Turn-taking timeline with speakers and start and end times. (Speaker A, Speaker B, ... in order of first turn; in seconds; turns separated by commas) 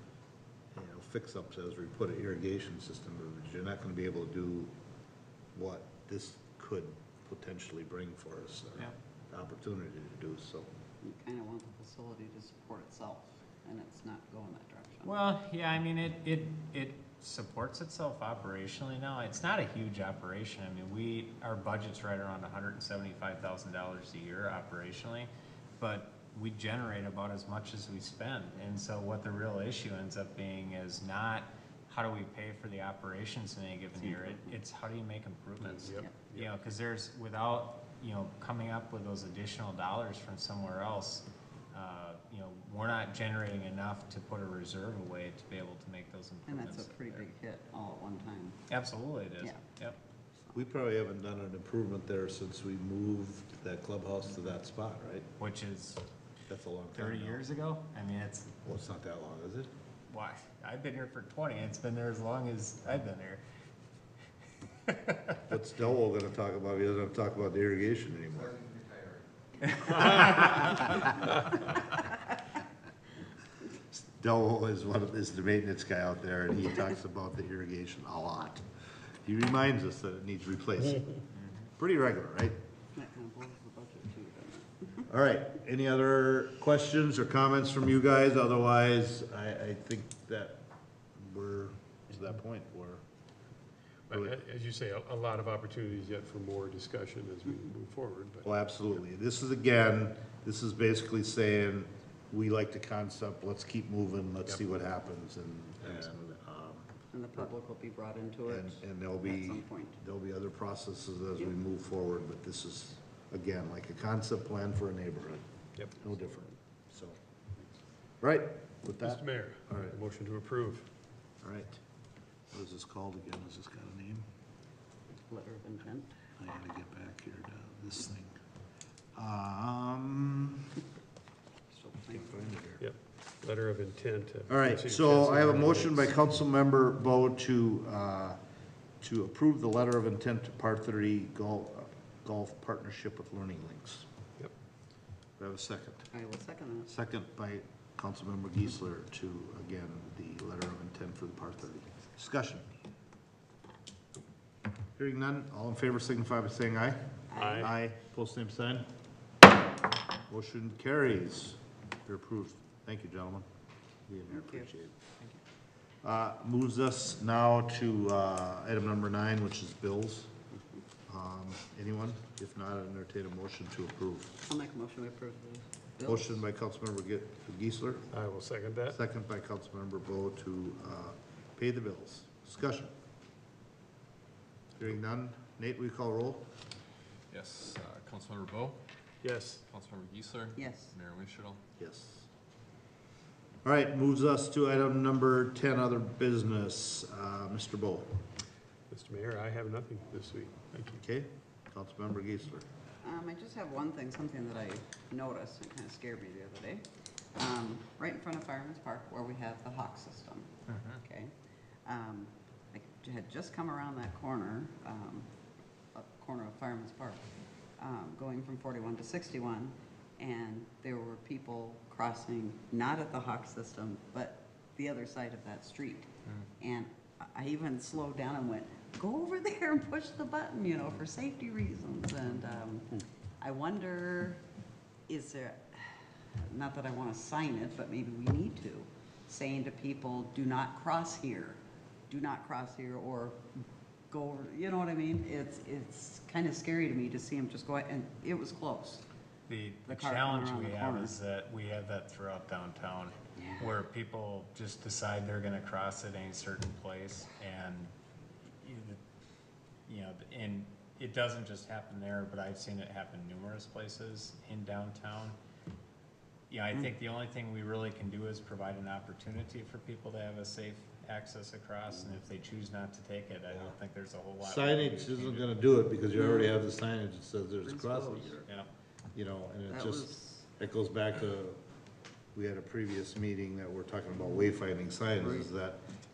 Speaker A: 0.7-4.7, Speaker A: 5.5-10.7, Speaker B: 11.0-15.1, Speaker C: 15.0-47.3, Speaker B: 34.1-34.5, Speaker D: 35.6-36.6, Speaker B: 46.5-48.6, Speaker C: 48.7-50.0, Speaker A: 50.5-55.3, Speaker C: 55.4-56.0, Speaker A: 56.5-57.4, Speaker C: 56.9-58.5, Speaker A: 58.6-59.7, Speaker C: 60.1-63.4, Speaker C: 64.9-65.4, Speaker A: 65.5-68.8, Speaker C: 69.8-70.8, Speaker A: 70.0-70.7, Speaker A: 73.9-78.6, Speaker A: 79.2-81.2, Speaker C: 81.3-81.7, Speaker A: 81.8-82.6, Speaker B: 82.9-85.1, Speaker A: 85.0-90.6, Speaker A: 91.2-93.0, Speaker D: 94.1-98.5, Speaker A: 98.4-107.4, Speaker B: 107.1-110.0, Speaker A: 108.5-117.2, Speaker B: 116.1-116.5, Speaker A: 118.2-119.9, Speaker D: 119.0-120.9, Speaker A: 121.4-121.8, Speaker A: 122.5-124.3, Speaker B: 125.3-126.1, Speaker A: 126.3-128.3, Speaker A: 129.1-130.8, Speaker B: 131.7-132.6, Speaker A: 132.1-132.8, Speaker D: 132.8-136.1, Speaker A: 134.5-138.4, Speaker A: 139.0-144.1, Speaker A: 145.4-146.1, Speaker B: 146.1-146.9, Speaker A: 146.9-152.7, Speaker A: 154.9-158.9, Speaker B: 157.3-157.7, Speaker D: 157.4-157.7, Speaker A: 160.3-163.5, Speaker A: 164.1-165.0, Speaker B: 164.3-164.7, Speaker A: 166.0-170.3, Speaker A: 171.1-174.4, Speaker B: 174.4-176.4, Speaker A: 176.0-178.1, Speaker D: 178.1-179.0, Speaker A: 178.9-182.9, Speaker A: 184.8-186.4, Speaker E: 187.3-188.8, Speaker D: 189.2-189.6, Speaker E: 189.7-191.6, Speaker B: 190.6-190.9, Speaker A: 191.8-192.3, Speaker A: 193.6-198.2, Speaker D: 198.9-201.0, Speaker A: 200.9-202.7, Speaker B: 203.0-206.8, Speaker B: 207.3-210.5, Speaker C: 210.7-211.0, Speaker B: 211.0-211.3, Speaker B: 211.8-215.3, Speaker B: 215.9-217.2, Speaker B: 217.8-234.4, Speaker B: 235.1-241.6, Speaker B: 242.1-243.5, Speaker B: 244.1-249.0, Speaker C: 249.5-257.9, Speaker B: 249.9-251.2, Speaker C: 258.6-259.0, Speaker C: 259.9-265.4, Speaker C: 266.5-275.5, Speaker A: 274.4-278.4, Speaker B: 276.1-276.5, Speaker B: 277.6-278.4, Speaker A: 279.1-281.6, Speaker B: 279.7-280.4, Speaker A: 282.3-285.8, Speaker B: 285.2-285.5